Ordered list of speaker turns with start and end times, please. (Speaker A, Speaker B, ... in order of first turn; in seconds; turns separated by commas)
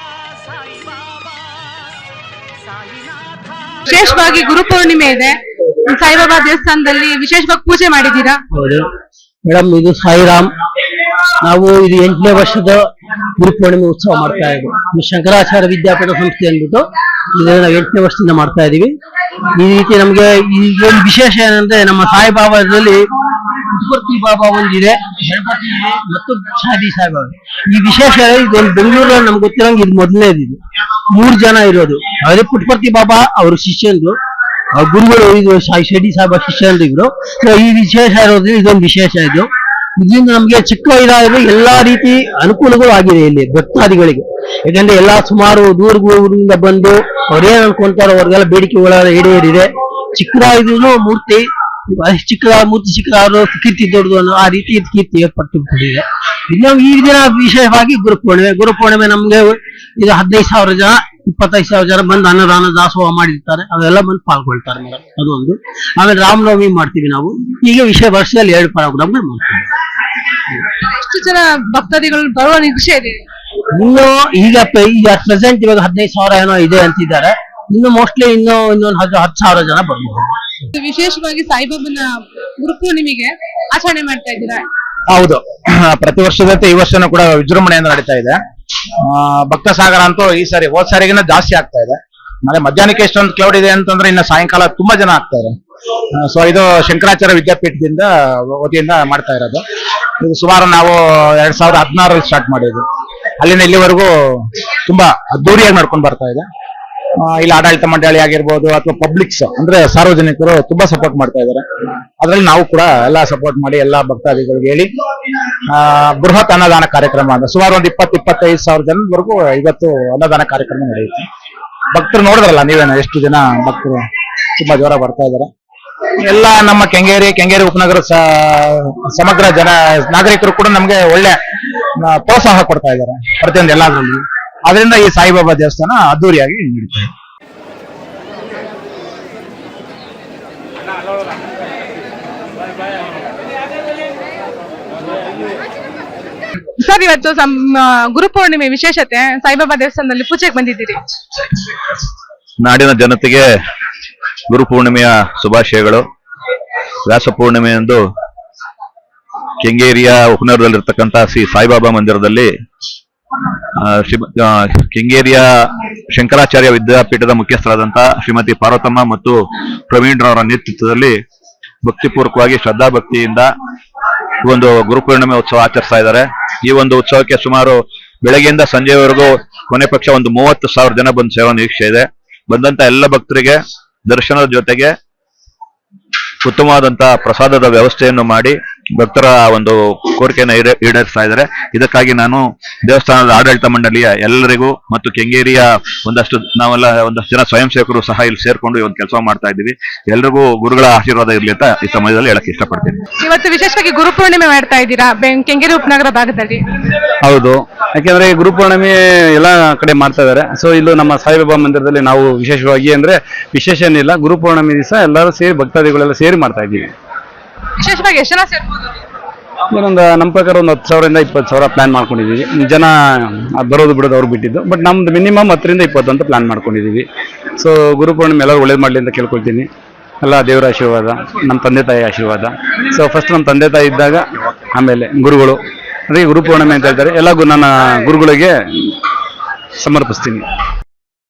Speaker A: 3.9-5.4, Speaker A: 5.9-8.4, Speaker B: 8.5-8.8, Speaker B: 9.5-10.5, Speaker B: 11.5-12.8, Speaker B: 13.4-16.8, Speaker B: 17.4-18.9, Speaker B: 19.6-22.9, Speaker B: 23.8-30.5, Speaker B: 31.2-34.1, Speaker B: 34.8-39.5, Speaker B: 40.0-49.6, Speaker B: 50.2-51.4, Speaker B: 52.0-56.0, Speaker B: 56.5-69.4, Speaker A: 70.8-73.2, Speaker B: 74.0-80.1, Speaker A: 80.8-84.7, Speaker C: 85.1-88.4, Speaker C: 89.0-95.5, Speaker C: 96.1-99.6, Speaker C: 100.2-102.8, Speaker C: 103.4-106.5, Speaker C: 107.2-111.6, Speaker C: 112.2-114.9, Speaker C: 115.7-121.2, Speaker C: 121.9-124.0, Speaker C: 124.6-125.5, Speaker C: 126.2-131.4, Speaker C: 132.0-137.1, Speaker A: 146.8-151.0, Speaker D: 152.6-153.4, Speaker D: 154.5-156.0, Speaker D: 157.1-158.0, Speaker D: 159.6-162.5, Speaker D: 163.8-169.4, Speaker D: 169.9-171.1, Speaker D: 171.8-173.5, Speaker D: 174.4-184.9, Speaker D: 186.4-203.0, Speaker A: 203.2-206.6, Speaker E: 207.2-216.9, Speaker A: 217.8-218.8, Speaker E: 219.7-222.9, Speaker E: 223.6-227.0, Speaker E: 227.6-229.7, Speaker E: 230.2-234.2, Speaker E: 234.7-235.5, Speaker E: 236.1-238.5, Speaker E: 239.8-240.4